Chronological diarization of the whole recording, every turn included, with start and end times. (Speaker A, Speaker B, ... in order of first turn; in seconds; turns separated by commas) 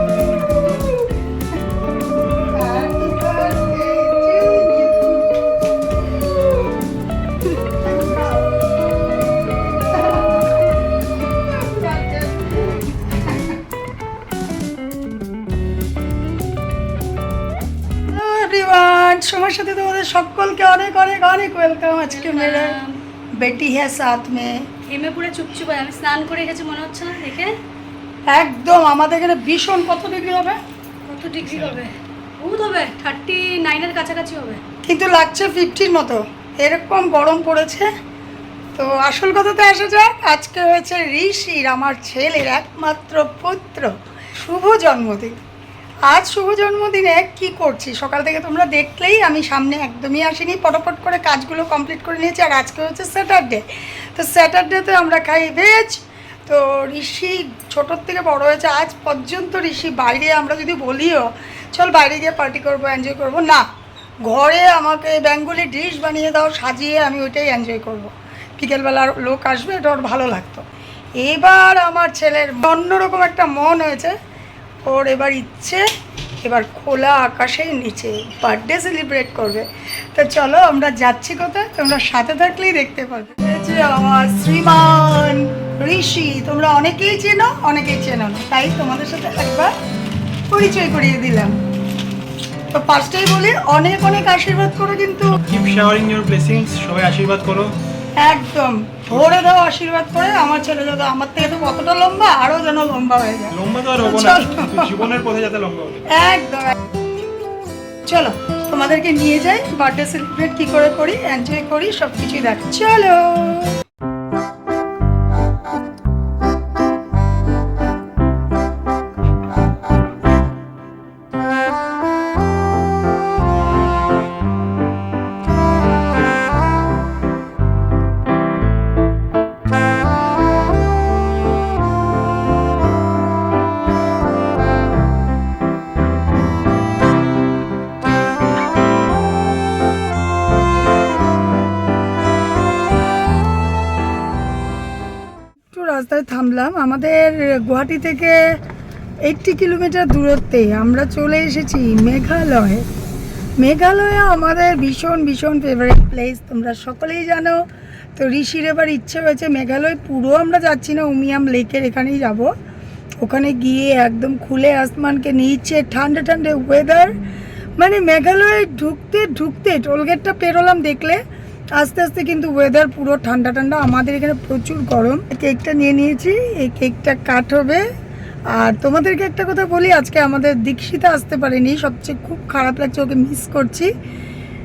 Speaker A: 2.3-5.4, Speaker A: 7.7-8.5, Speaker A: 9.7-10.7, Speaker A: 11.3-13.6, Speaker A: 18.1-22.8, Speaker B: 22.1-22.9, Speaker A: 23.4-24.7, Speaker B: 24.8-27.5, Speaker A: 28.3-30.6, Speaker B: 31.1-34.6, Speaker C: 31.4-31.8, Speaker A: 34.8-37.9, Speaker A: 38.7-45.4, Speaker A: 46.1-63.6, Speaker A: 64.2-70.6, Speaker A: 71.2-74.1, Speaker A: 74.8-75.8, Speaker A: 76.4-89.7, Speaker A: 90.5-91.5, Speaker A: 92.7-95.4, Speaker C: 95.3-97.7, Speaker A: 98.2-104.9, Speaker C: 99.1-99.4, Speaker C: 103.5-106.0, Speaker A: 106.1-106.7, Speaker A: 108.0-113.8, Speaker A: 145.7-148.4, Speaker A: 149.2-152.8, Speaker A: 153.6-162.5, Speaker A: 163.2-167.2, Speaker A: 167.8-171.2, Speaker A: 171.8-177.8, Speaker A: 178.5-183.9